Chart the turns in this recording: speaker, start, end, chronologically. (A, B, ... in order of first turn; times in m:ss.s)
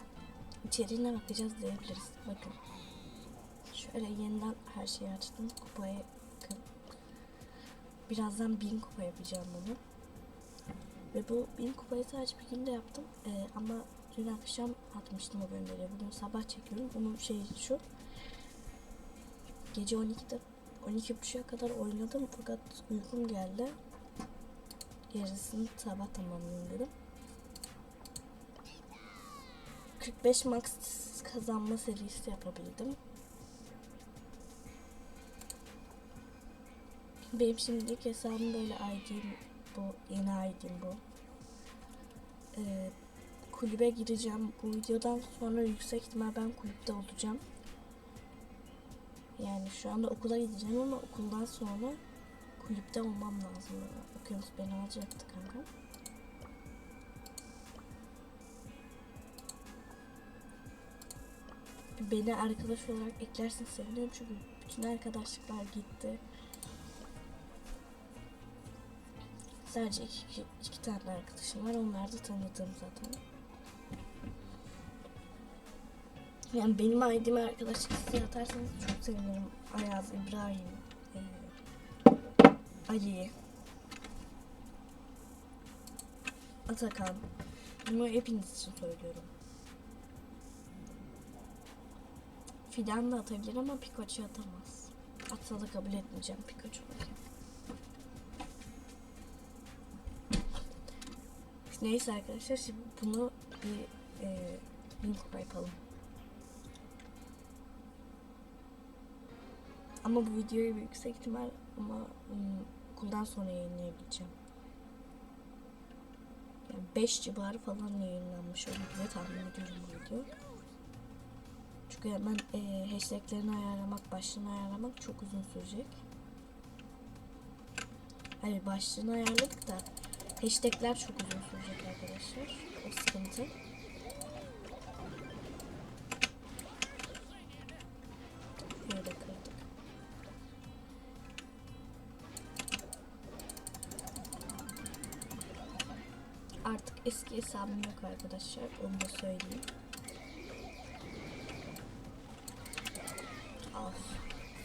0:00.6-0:02.6 A
0:03.7-0:06.7 A
0:08.1-0:09.8 A
0:11.1-0:17.8 A
0:19.7-0:23.8 A
0:25.1-0:26.9 A
0:30.0-0:33.0 A
0:37.3-0:41.0 A
0:42.5-0:43.0 A
0:43.5-0:47.4 A
0:49.4-0:52.0 A
0:52.6-0:55.7 A
1:02.0-1:06.2 A
1:09.6-1:13.2 A
1:16.5-1:21.6 A
1:22.9-1:23.3 A
1:26.7-1:27.3 A
1:27.8-1:29.3 A
1:32.7-1:37.2 A
1:41.7-1:45.8 A
1:50.0-1:54.3 A
1:56.7-2:00.3 A
2:01.9-2:06.0 A
2:08.4-2:13.5 A
2:18.8-2:19.6 A
2:26.6-2:29.7 A
2:33.7-2:34.3 A